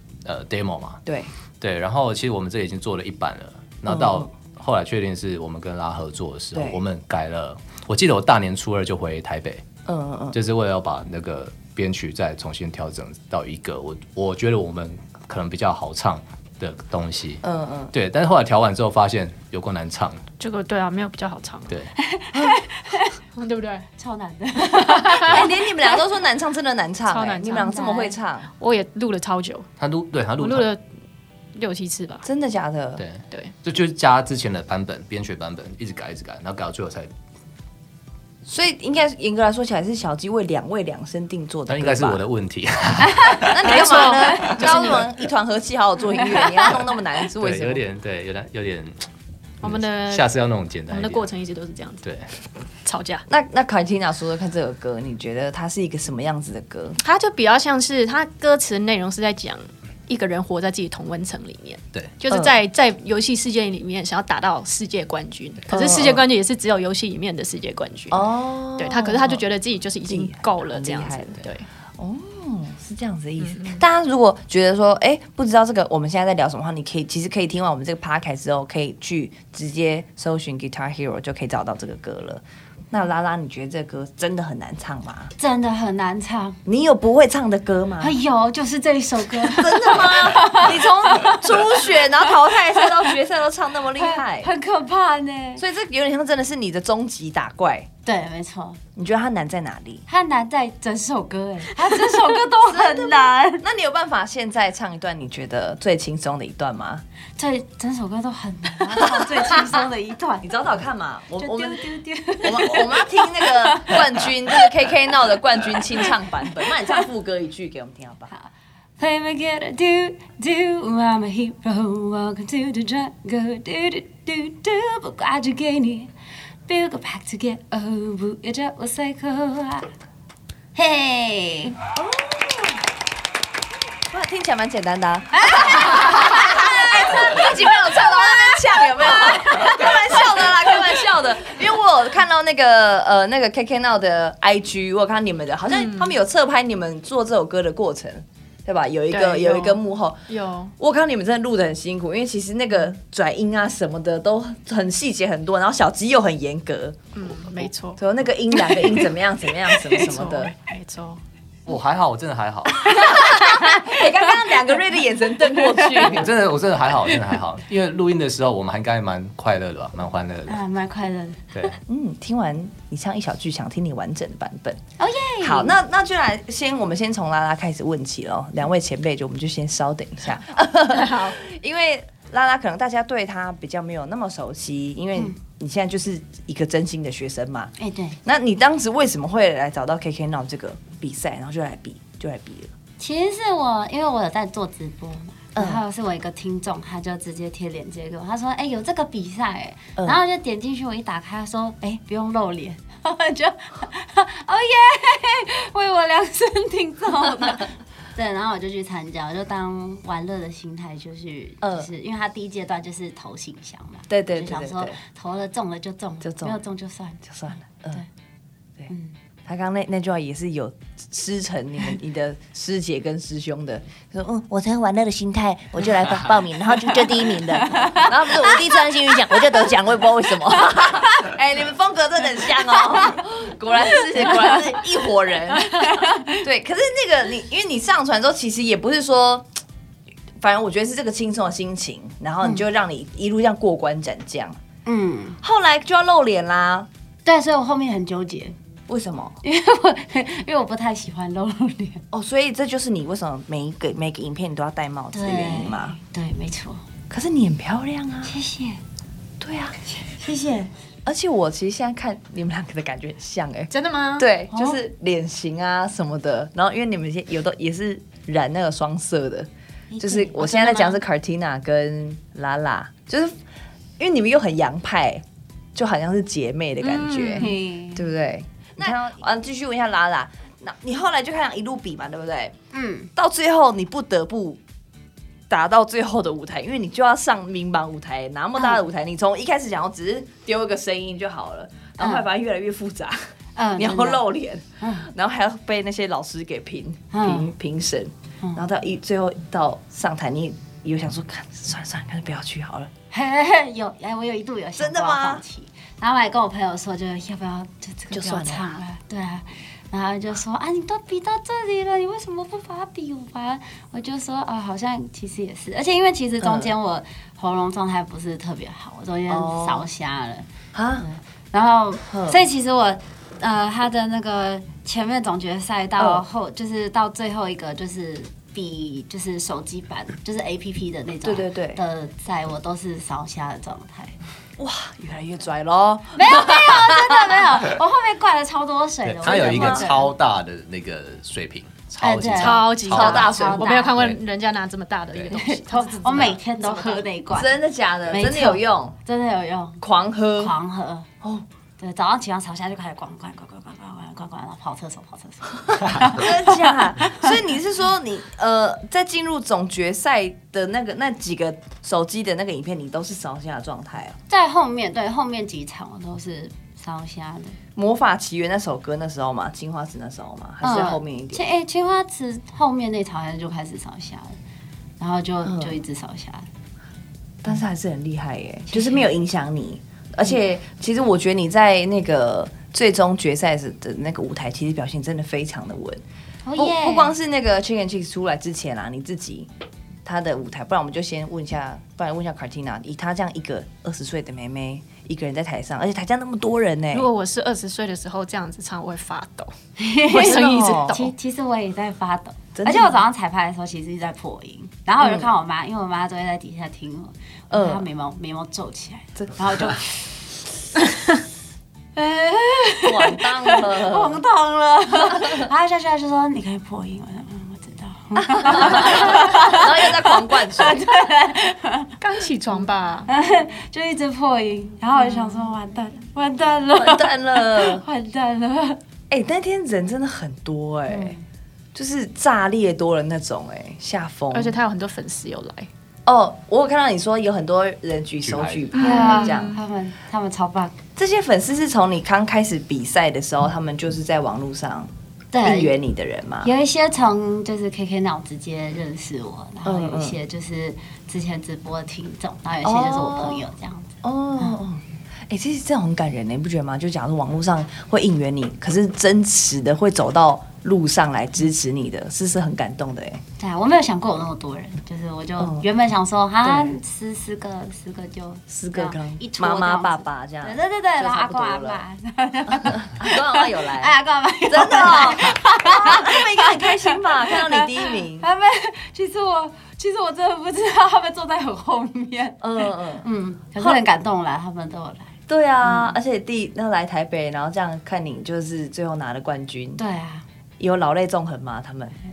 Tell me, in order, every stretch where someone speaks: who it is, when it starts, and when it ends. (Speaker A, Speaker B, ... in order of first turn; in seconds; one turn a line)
Speaker A: 0.2-1.0
Speaker B: 1.1-1.3
Speaker A: 1.6-9.6
Speaker B: 3.9-4.3
Speaker B: 6.5-6.8
Speaker B: 9.8-10.3
Speaker A: 10.3-17.4
Speaker B: 17.4-17.9
Speaker A: 17.9-20.2
Speaker C: 20.4-21.7
Speaker D: 22.0-23.1
Speaker C: 23.3-23.8
Speaker D: 24.0-25.5
Speaker C: 24.7-25.4
Speaker B: 25.1-28.5
Speaker C: 27.1-29.7
Speaker A: 29.8-30.7
Speaker C: 30.4-30.8
Speaker C: 31.5-32.2
Speaker B: 32.2-33.0
Speaker A: 33.0-37.1
Speaker B: 38.5-42.2
Speaker A: 41.7-44.9
Speaker B: 43.5-47.8
Speaker C: 43.6-45.1
Speaker D: 46.2-46.7
Speaker A: 47.4-49.0
Speaker A: 49.6-51.3
Speaker C: 49.6-50.3
Speaker C: 50.9-52.0
Speaker A: 52.0-52.3
Speaker C: 52.8-53.2
Speaker B: 53.3-57.0
Speaker C: 57.0-68.2
Speaker B: 62.3-62.6
Speaker B: 65.7-66.2
Speaker B: 68.1-69.4
Speaker C: 68.8-71.7
Speaker B: 70.0-71.4
Speaker B: 72.0-85.3
Speaker C: 73.4-73.8
Speaker D: 85.4-86.6
Speaker B: 86.7-88.1
Speaker D: 88.0-91.8
Speaker B: 89.4-94.5
Speaker D: 92.4-92.9
Speaker D: 94.0-95.6
Speaker B: 95.6-97.9
Speaker D: 98.0-98.8
Speaker B: 99.0-100.0
Speaker D: 100.1-103.6
Speaker B: 102.0-107.0
Speaker D: 107.4-110.5
Speaker B: 109.2-109.6
Speaker B: 110.4-111.9
Speaker D: 111.4-114.6
Speaker B: 112.4-118.3
Speaker D: 118.3-126.1
Speaker D: 126.7-129.9
Speaker D: 130.7-131.8
Speaker B: 131.9-132.8
Speaker B: 134.1-150.2
Speaker D: 135.4-140.1
Speaker C: 145.7-146.1
Speaker C: 149.1-150.7
Speaker B: 150.8-157.0
Speaker C: 157.1-158.0
Speaker B: 157.9-160.5
Speaker C: 159.8-161.2
Speaker A: 161.7-162.8
Speaker B: 162.7-166.3
Speaker A: 166.0-170.6
Speaker D: 170.5-171.7
Speaker B: 171.9-174.8
Speaker D: 175.0-175.8
Speaker B: 175.4-187.7
Speaker C: 180.9-181.3
Speaker D: 187.8-188.2
Speaker B: 188.2-192.7
Speaker D: 193.0-217.2
Speaker B: 195.6-195.8
Speaker B: 211.6-211.9
Speaker B: 214.1-215.0
Speaker B: 216.2-216.6
Speaker B: 217.2-218.0
Speaker D: 218.9-219.2
Speaker B: 219.4-239.5
Speaker D: 227.7-228.5
Speaker D: 234.2-234.6
Speaker D: 235.6-236.3
Speaker B: 240.4-244.6
Speaker D: 244.8-245.4
Speaker B: 245.4-246.9
Speaker D: 247.2-248.6
Speaker B: 248.9-249.3
Speaker D: 249.4-252.0
Speaker B: 252.1-256.0
Speaker D: 255.1-256.8
Speaker B: 257.1-258.4
Speaker D: 258.2-258.8
Speaker B: 259.4-259.7
Speaker D: 260.0-260.7
Speaker B: 261.1-269.5
Speaker C: 263.7-264.2
Speaker D: 264.5-264.8
Speaker D: 269.9-271.0
Speaker B: 270.0-273.4
Speaker B: 274.0-275.2
Speaker B: 275.7-282.5
Speaker C: 276.8-277.6
Speaker D: 277.4-278.1
Speaker D: 282.7-283.1
Speaker B: 283.1-284.6
Speaker B: 285.5-293.2
Speaker D: 288.6-288.8
Speaker D: 292.0-292.3
Speaker D: 293.6-294.2
Speaker B: 293.8-302.9
Speaker D: 294.8-295.1
Speaker D: 297.1-297.5
Speaker D: 303.1-334.1
Speaker B: 304.8-305.4
Speaker B: 308.1-308.7
Speaker B: 316.4-316.7
Speaker B: 319.3-319.9
Speaker B: 320.7-321.1
Speaker B: 322.0-322.4
Speaker B: 326.0-326.2
Speaker B: 331.2-331.8
Speaker B: 334.6-337.7
Speaker D: 336.1-340.1
Speaker A: 339.0-343.3
Speaker B: 339.3-339.8
Speaker C: 339.5-339.9
Speaker D: 342.0-343.9
Speaker C: 342.3-347.1
Speaker B: 342.9-343.7
Speaker D: 345.3-347.5
Speaker B: 347.3-348.9
Speaker D: 348.1-349.8
Speaker B: 349.8-350.5
Speaker D: 350.4-351.1
Speaker D: 351.8-357.3
Speaker B: 356.0-364.2
Speaker D: 364.3-367.6
Speaker B: 367.8-371.4
Speaker D: 370.6-374.4
Speaker D: 375.0-376.5
Speaker B: 375.4-375.8
Speaker B: 377.4-386.0
Speaker D: 378.7-379.1
Speaker D: 386.4-387.1
Speaker B: 386.6-389.5
Speaker B: 390.0-397.1
Speaker C: 396.9-399.5
Speaker D: 399.8-410.4
Speaker C: 400.0-401.1
Speaker B: 400.1-401.0
Speaker B: 402.5-403.0
Speaker B: 405.0-405.3
Speaker B: 407.5-407.9
Speaker B: 409.2-409.7
Speaker D: 411.9-422.0
Speaker B: 412.8-414.2
Speaker B: 418.2-420.9
Speaker C: 422.0-423.1
Speaker D: 422.5-428.8
Speaker B: 426.7-427.8
Speaker B: 429.1-431.1
Speaker D: 430.9-431.2
Speaker B: 431.7-434.6
Speaker C: 434.3-435.7
Speaker B: 436.1-439.6
Speaker A: 438.2-438.7
Speaker C: 438.7-439.6
Speaker D: 438.8-440.8
Speaker B: 440.9-444.9
Speaker D: 445.3-445.7
Speaker B: 445.4-446.5
Speaker D: 446.4-454.5
Speaker B: 449.6-450.2
Speaker B: 452.6-453.5
Speaker B: 454.0-463.2
Speaker D: 463.4-477.6
Speaker B: 465.4-465.7
Speaker B: 466.4-466.8
Speaker B: 468.5-471.8
Speaker B: 472.5-473.9
Speaker B: 474.5-478.2
Speaker D: 478.1-485.1
Speaker B: 482.4-483.8
Speaker B: 485.3-489.8
Speaker D: 485.6-485.9
Speaker D: 489.8-490.2
Speaker B: 490.6-492.0